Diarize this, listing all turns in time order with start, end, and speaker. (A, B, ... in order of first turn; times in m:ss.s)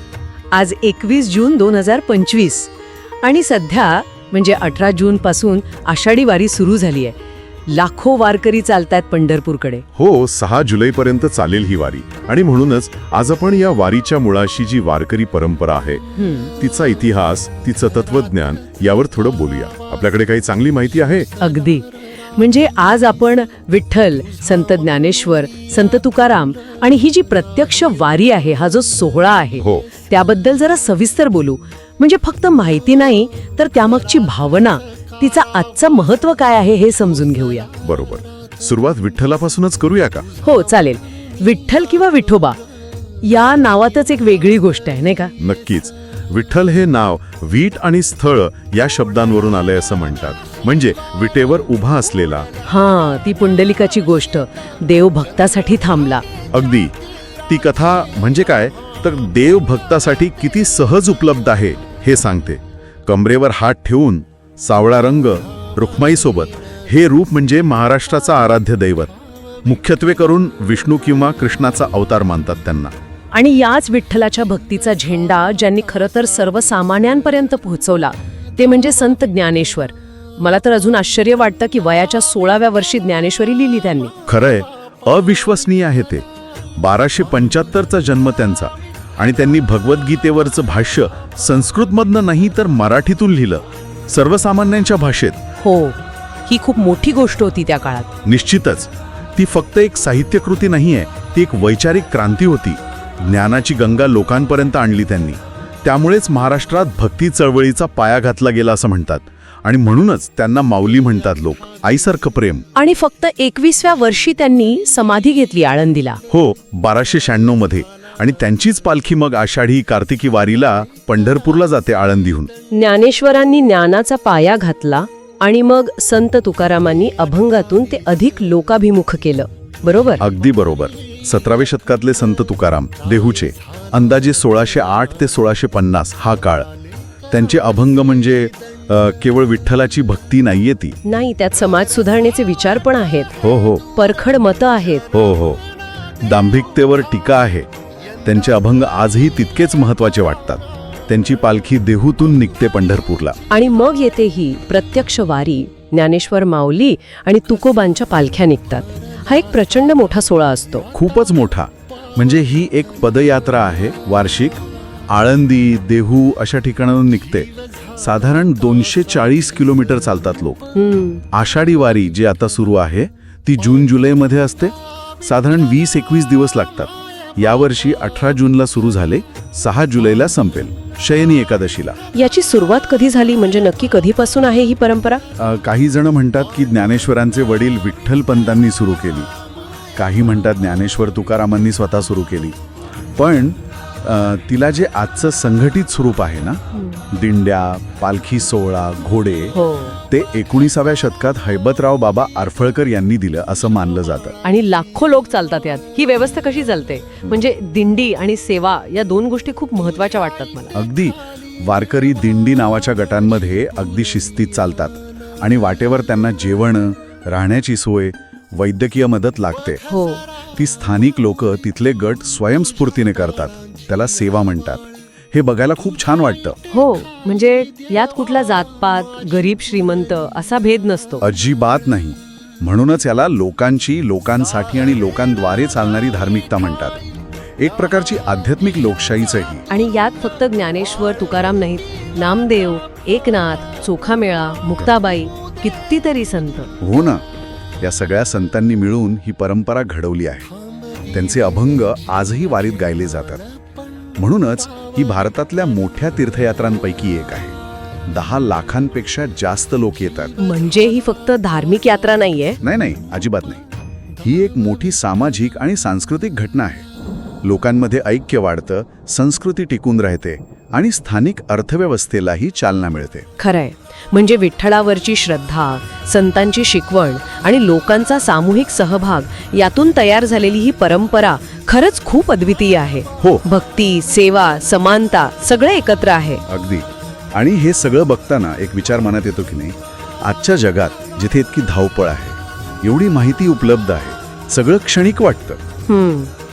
0:00.5-0:02.7 A
0:03.2-0:07.2 A
0:07.7-0:09.9 A
0:10.0-0:16.0 B
0:16.2-0:16.5 A
0:16.5-0:21.3 B
0:21.4-0:37.7 A
0:37.8-0:40.3 B
0:40.4-0:42.6 A
0:43.2-0:45.3 A
0:45.4-0:52.5 B
0:52.6-0:56.2 A
0:56.5-0:56.9 B
0:57.5-1:09.1 B
1:09.6-1:12.9 B
1:13.3-1:24.1 A
1:24.3-1:26.3 B
1:26.8-1:35.4 B
1:35.6-1:38.1 A
1:38.2-1:52.6 B
1:52.8-1:56.2 A
1:56.3-2:02.5 B
2:02.7-2:10.2 A
2:10.2-2:16.7 B
2:17.3-2:21.0 B
2:21.0-2:23.4 A
2:23.4-2:23.8 B
2:23.9-2:25.0 A
2:25.1-2:25.6 B
2:26.2-2:27.7 B
2:28.2-2:33.4 B
2:33.5-2:40.9 A
2:40.9-2:50.6 B
2:50.8-2:51.2 A
2:51.3-3:02.0 B
3:02.1-3:05.2 A
3:05.4-3:09.3 B
3:10.0-3:12.6 B
3:13.2-3:16.6 B
3:16.7-3:17.0 A
3:17.1-3:19.5 B
3:19.5-3:20.0 A
3:20.1-3:24.3 B
3:24.4-3:30.7 A
3:30.8-3:39.8 B
3:39.9-3:40.2 A
3:40.6-3:46.6 B
3:46.7-3:51.2 A
3:51.2-3:57.0 B
3:57.6-3:59.7 B
3:59.7-4:06.7 A
4:06.8-4:07.2 B
4:07.8-4:10.5 B
4:11.1-4:13.4 B
4:14.2-4:17.6 B
4:18.1-4:20.4 B
4:20.4-4:22.6 A
4:22.6-4:23.6 B
4:24.2-4:26.8 B
4:27.4-4:33.3 B
4:33.4-4:46.4 A
4:43.2-4:43.4 B
4:46.5-4:55.6 B
4:55.9-4:56.3 A